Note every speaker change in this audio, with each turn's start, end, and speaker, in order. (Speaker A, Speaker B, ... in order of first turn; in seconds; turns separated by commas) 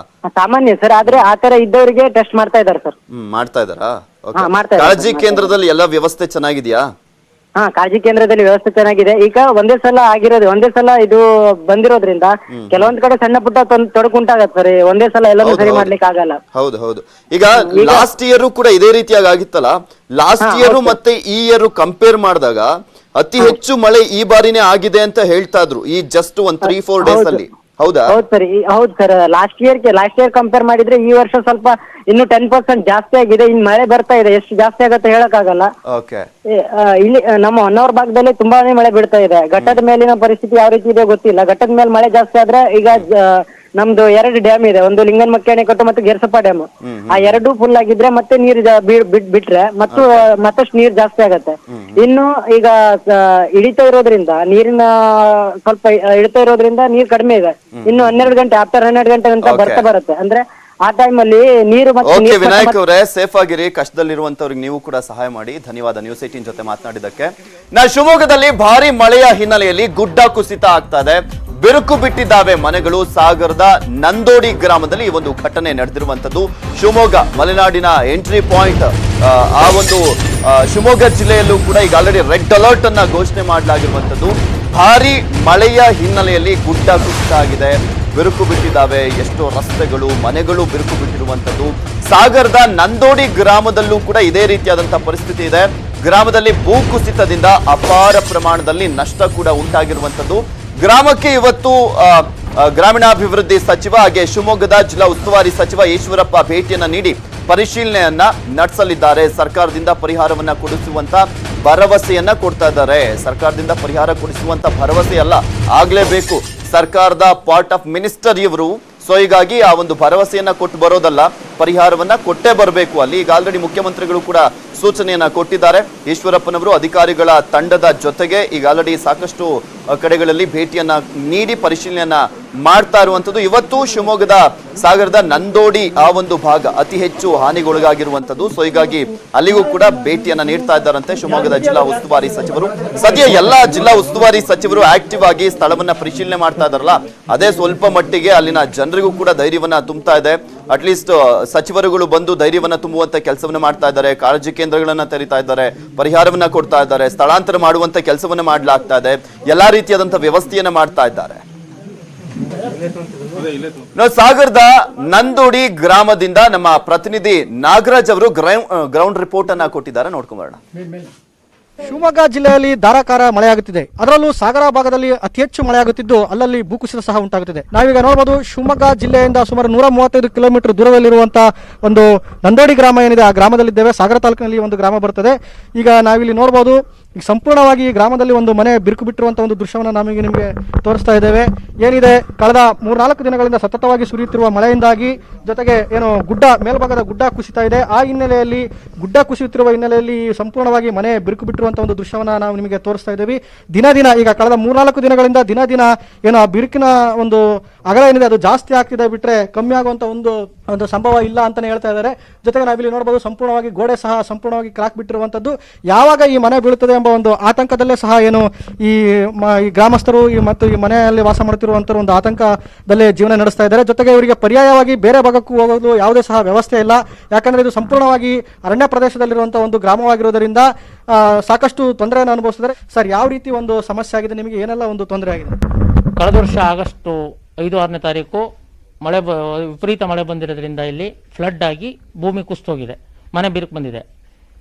Speaker A: 0.3-2.9, Speaker B: 3.1-6.8, Speaker A: 4.4-5.5, Speaker A: 7.6-16.4, Speaker B: 12.5-12.9, Speaker B: 15.4-15.9, Speaker B: 16.5-28.1, Speaker A: 17.6-18.0, Speaker A: 20.4-20.9, Speaker A: 26.6-27.4, Speaker A: 28.1-35.7, Speaker B: 35.9-36.2, Speaker A: 36.6-54.9, Speaker B: 46.8-47.4, Speaker B: 49.9-50.2, Speaker B: 51.7-52.0, Speaker A: 55.6-62.7, Speaker B: 57.8-58.3, Speaker B: 59.4-59.9, Speaker B: 62.1-161.4, Speaker B: 163.9-170.6, Speaker C: 171.9-230.6, Speaker C: 231.4-235.6, Speaker D: 236.2-238.4, Speaker D: 239.0-244.0